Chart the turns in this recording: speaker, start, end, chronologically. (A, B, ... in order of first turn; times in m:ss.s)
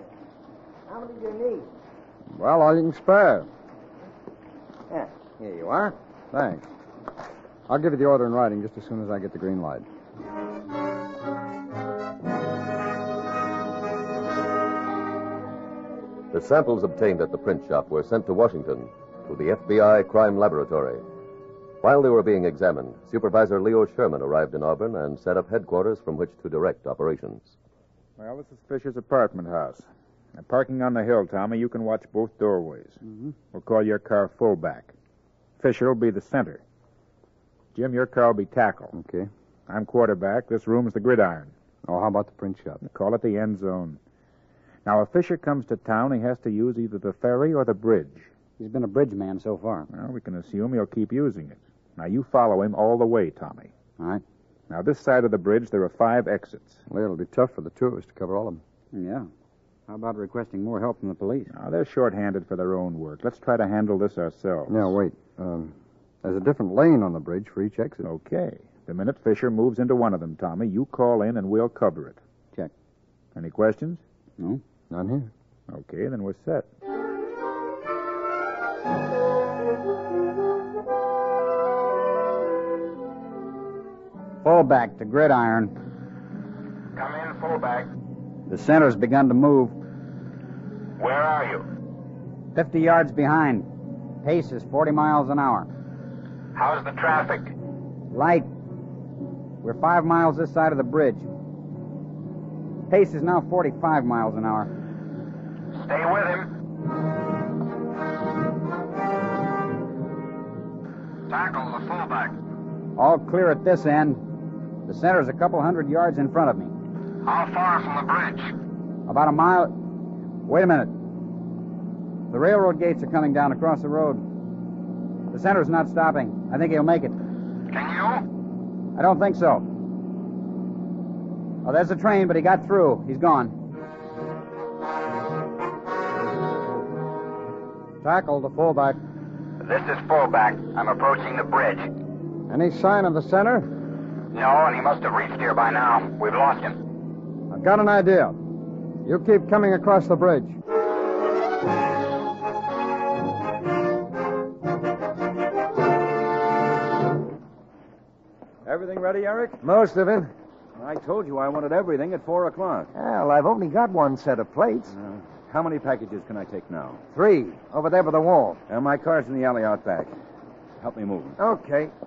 0:00.9-0:01.7 A
0:02.3-0:03.5 B
0:04.9-0:05.9 A
0:06.3-0:06.7 B
0:07.7-0:09.8 B
0:16.3-0:21.0 C
0:21.8-0:27.6 C
0:28.2-0:33.0 D
0:33.5-0:34.9 D
0:35.6-0:36.6 D
0:37.7-0:38.9 D
0:38.9-0:39.3 B
0:39.7-0:41.5 D
0:41.8-0:42.8 B
0:42.8-0:44.0 D
0:44.8-0:48.3 D
0:48.6-0:49.9 E
0:49.9-0:53.7 D
0:54.7-0:56.8 D
0:56.9-0:58.6 B
0:58.9-0:59.3 E
0:59.9-1:01.5 E
1:01.5-1:04.9 D
1:04.7-1:08.0 B
1:08.0-1:12.2 D
1:13.3-1:14.0 D
1:14.9-1:15.3 B
1:15.7-1:16.6 D
1:24.4-1:25.7 E
1:26.9-1:27.9 F
1:28.5-1:29.8 E
1:31.0-1:31.6 F
1:32.5-1:33.7 E
1:34.2-1:35.7 E
1:36.5-1:37.5 F
1:38.1-1:38.5 E
1:39.6-1:41.3 E
1:42.9-1:44.7 E
1:45.7-1:46.5 F
1:51.3-1:52.4 F
1:53.0-1:54.2 E
1:54.8-1:56.7 E
1:57.2-1:58.5 F
1:59.1-1:59.7 E
2:00.4-2:00.9 E
2:02.3-2:04.2 E
2:05.3-2:07.1 E
2:07.7-2:08.2 F
2:08.9-2:09.7 E
2:11.6-2:13.5 E
2:18.0-2:19.0 E
2:18.1-2:18.6 B
2:19.6-2:21.9 F
2:22.5-2:23.7 B
2:24.3-2:26.8 F
2:27.5-2:28.4 B
2:29.0-2:30.6 B
2:38.6-2:39.6 G
2:39.6-2:40.3 A
2:40.8-2:42.9 G
2:42.9-2:44.9 A
2:44.9-2:47.0 G
2:47.1-2:48.6 A
2:48.7-2:50.2 G
2:50.8-2:51.4 G
2:51.4-2:51.9 A